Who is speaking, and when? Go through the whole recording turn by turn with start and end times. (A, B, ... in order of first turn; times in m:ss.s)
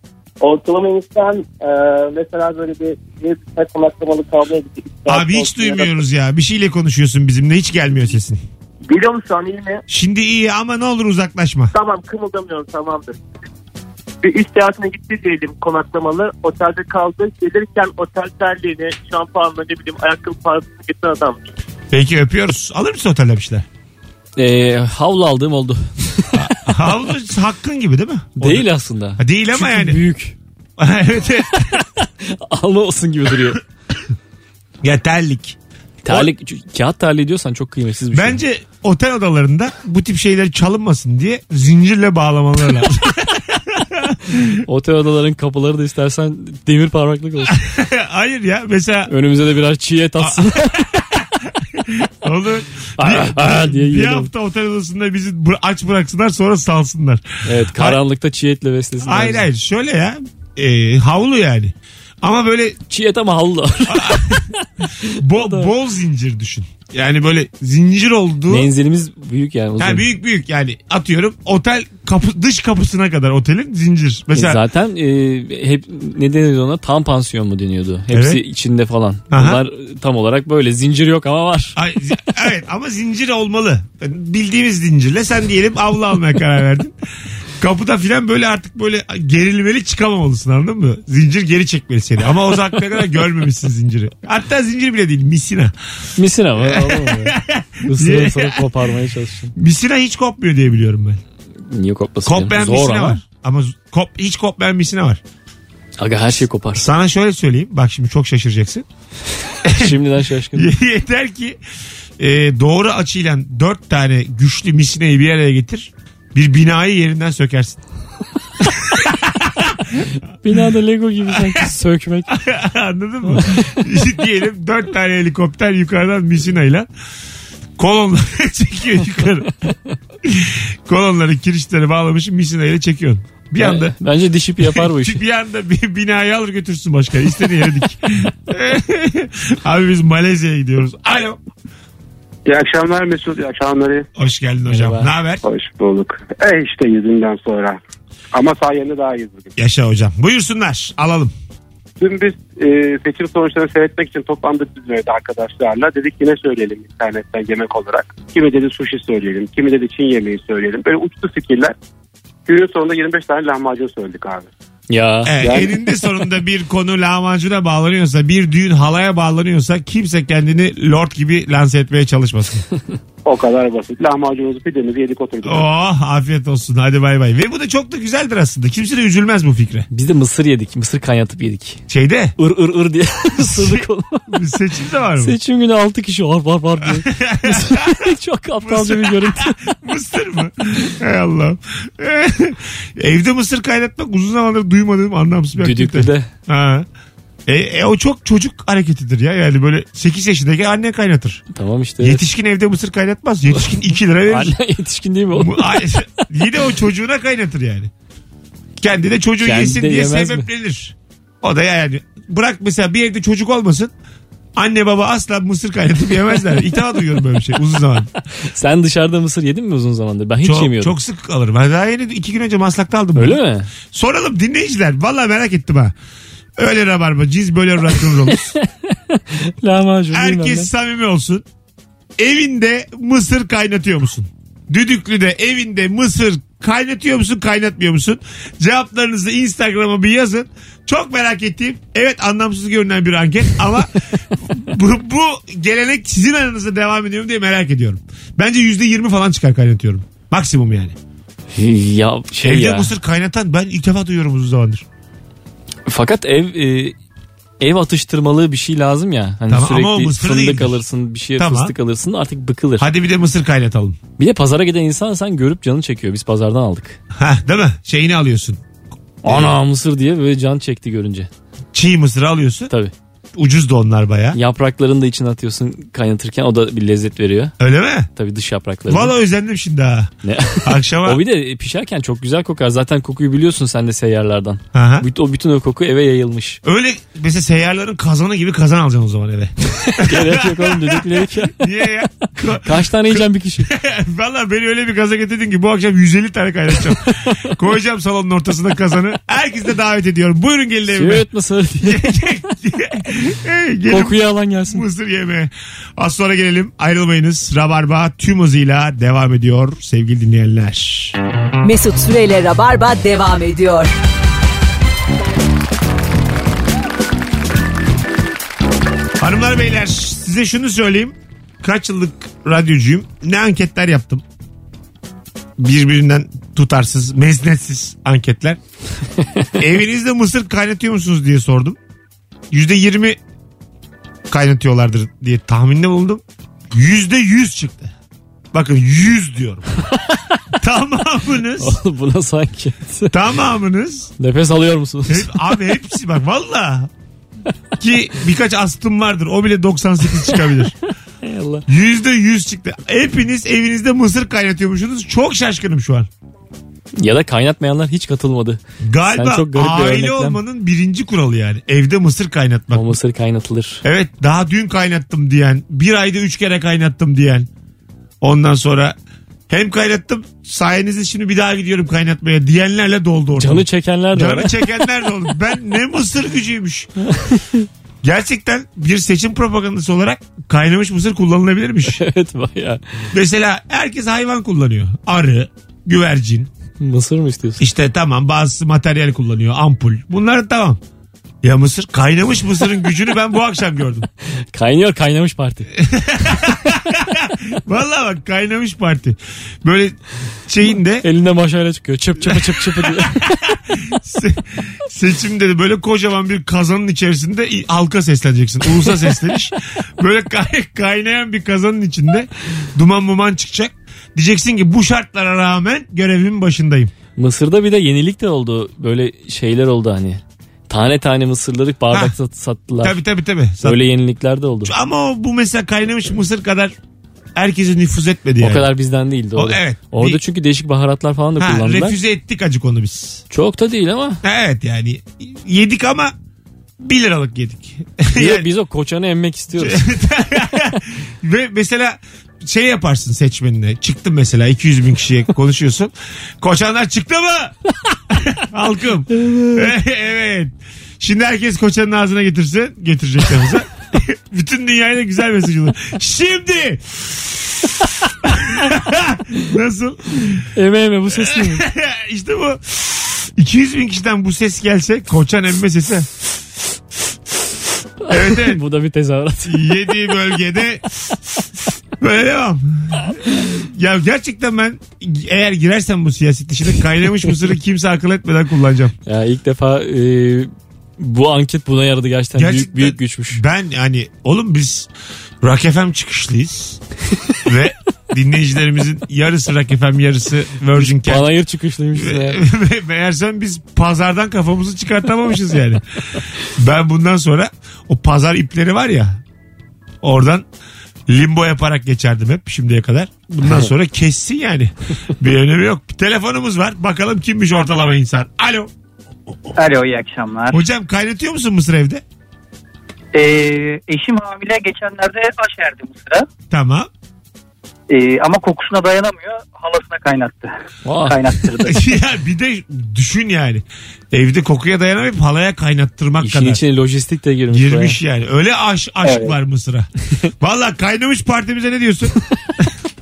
0:00.4-0:06.0 A
0:05.1-0:08.4 B
0:08.8-0:09.8 A
0:09.9-0:11.7 B
0:11.7-0:13.2 A
0:14.2-0:21.4 A
0:21.9-0:23.7 B
0:24.4-0:26.9 C
0:26.3-0:30.0 B
0:28.4-0:30.4 C
0:30.8-0:31.8 B
0:31.6-0:33.6 C
0:34.8-0:35.6 B
0:36.0-0:38.4 C
0:38.1-0:44.6 B
0:44.6-0:47.6 C
0:47.5-0:49.1 B
0:49.1-0:50.8 C
0:50.2-0:58.0 B
0:53.0-0:54.3 C
0:57.4-0:59.5 C
0:59.0-1:02.8 B
1:02.9-1:05.7 C
1:03.9-1:04.5 B
1:05.2-1:08.7 B
1:08.5-1:10.1 C
1:09.8-1:14.6 B
1:14.3-1:21.8 C
1:18.1-1:18.4 B
1:19.3-1:19.6 B
1:21.8-1:26.9 B
1:27.6-1:35.7 B
1:36.2-1:39.5 C
1:36.6-1:38.7 B
1:39.6-1:41.2 B
1:41.7-1:43.2 C
1:42.2-1:45.2 B
1:46.0-1:46.9 C
1:46.8-1:48.9 B
1:49.6-1:50.0 B
1:49.7-1:50.7 C
1:50.5-1:51.6 B
1:52.2-1:57.8 B
1:58.6-2:00.0 B
2:00.4-2:02.3 C
2:01.3-2:01.7 B
2:02.3-2:06.9 B
2:03.3-2:03.7 C
2:07.8-2:09.7 B
2:10.2-2:14.0 B
2:13.6-2:15.2 C
2:14.6-2:21.4 B
2:22.5-2:24.1 D
2:24.2-2:25.4 B
2:24.7-2:25.1 C
2:25.4-2:27.8 D
2:28.3-2:29.5 D
2:29.6-2:31.3 B
2:32.0-2:41.7 D
2:42.5-2:44.5 D
2:44.9-2:45.4 C
2:45.2-2:52.6 B
2:45.4-2:45.7 D
2:53.2-2:55.7 D
2:55.4-2:59.9 B
2:59.9-3:01.8 C
3:01.9-3:02.4 B
3:02.4-3:04.3 C
3:03.4-3:05.4 B
3:05.2-3:09.6 C
3:06.8-3:07.9 B
3:08.6-3:16.9 B
3:15.6-3:16.3 C
3:17.5-3:21.4 B
3:21.5-3:22.2 C
3:22.0-3:24.6 B
3:24.3-3:25.9 C
3:25.3-3:27.9 B
3:28.8-3:33.9 B
3:29.4-3:30.5 C
3:34.6-3:38.1 B
3:38.4-3:41.0 C
3:40.4-3:45.9 B
3:43.2-3:43.7 C
3:46.6-3:48.6 B
3:48.0-3:50.7 C
3:50.1-3:51.4 B
3:52.2-4:11.0 B
4:11.6-4:12.9 C
4:12.4-4:14.8 B
4:15.9-4:17.0 C
4:17.6-4:22.9 C
4:19.5-4:20.8 B
4:21.4-4:21.7 B
4:22.8-4:24.0 B
4:24.2-4:27.0 C
4:27.1-4:28.6 B
4:29.2-4:29.6 B
4:29.2-4:31.3 C
4:31.7-4:32.7 B
4:33.4-4:34.4 B
4:34.3-4:37.6 C
4:37.6-4:38.1 B
4:38.2-4:39.2 C
4:38.9-4:41.2 B
4:40.2-4:46.6 C
4:44.7-4:45.1 B
4:46.6-5:01.3 B
4:49.9-4:51.6 C
4:52.5-4:53.7 C
4:57.1-4:57.5 C
5:00.9-5:02.1 C
5:01.8-5:11.2 B
5:03.9-5:04.8 C
5:11.6-5:13.9 E
5:19.2-5:24.2 B
5:25.6-5:28.6 B
5:29.6-5:31.8 B
5:32.5-5:33.2 B
5:34.3-5:37.9 B
5:38.5-5:39.7 B
5:39.9-5:40.4 C
5:40.6-5:41.8 B
5:41.6-5:43.2 C
5:43.1-5:44.1 B
5:44.2-5:45.5 C
5:45.1-5:46.9 B
5:47.8-5:50.8 B
5:51.2-5:51.6 C
5:51.7-5:56.1 B
5:57.0-6:00.4 C
5:58.8-6:03.0 B
6:02.7-6:03.8 C
6:03.8-6:07.5 B
6:08.2-6:09.0 B
6:09.5-6:16.9 B
6:13.4-6:14.9 C
6:17.1-6:17.7 C
6:18.0-6:22.0 B
6:21.9-6:23.0 C
6:23.1-6:26.5 B
6:26.8-6:27.6 C
6:27.6-6:30.8 B
6:31.4-6:34.1 B
6:34.5-6:35.7 C
6:35.8-6:41.1 B
6:41.0-6:43.6 C
6:42.2-6:56.9 B
6:57.2-7:03.0 C
7:02.8-7:03.8 B
7:03.6-7:04.7 C
7:04.6-7:06.7 B
7:07.4-7:08.7 B
7:08.4-7:12.0 C
7:09.4-7:10.2 B
7:11.4-7:13.2 B
7:13.3-7:14.2 C
7:14.2-7:16.1 B
7:16.8-7:18.5 B
7:18.2-7:19.9 C
7:19.6-7:27.6 B
7:28.1-7:37.7 B
7:29.2-7:29.7 C
7:38.3-7:40.5 B
7:40.5-7:41.6 C
7:41.1-7:46.1 B
7:48.1-7:48.6 B
7:48.1-7:49.7 C
7:49.5-7:50.9 B
7:52.0-7:58.9 B
7:59.1-8:03.4 C
8:02.4-8:04.9 B
8:05.4-8:06.8 B
8:07.4-8:11.3 B
8:10.8-8:12.4 C
8:12.0-8:19.2 B
8:20.0-8:20.4 B
8:21.1-8:28.7 B
8:29.6-8:30.6 F
8:30.5-8:32.0 B
8:33.1-8:36.3 F
8:36.5-8:36.9 B
8:37.9-8:41.8 F
8:40.8-8:41.2 C
8:41.7-8:46.6 B
8:46.2-8:48.0 C
8:47.5-8:49.9 B
8:49.0-8:49.3 F
8:50.4-8:52.2 B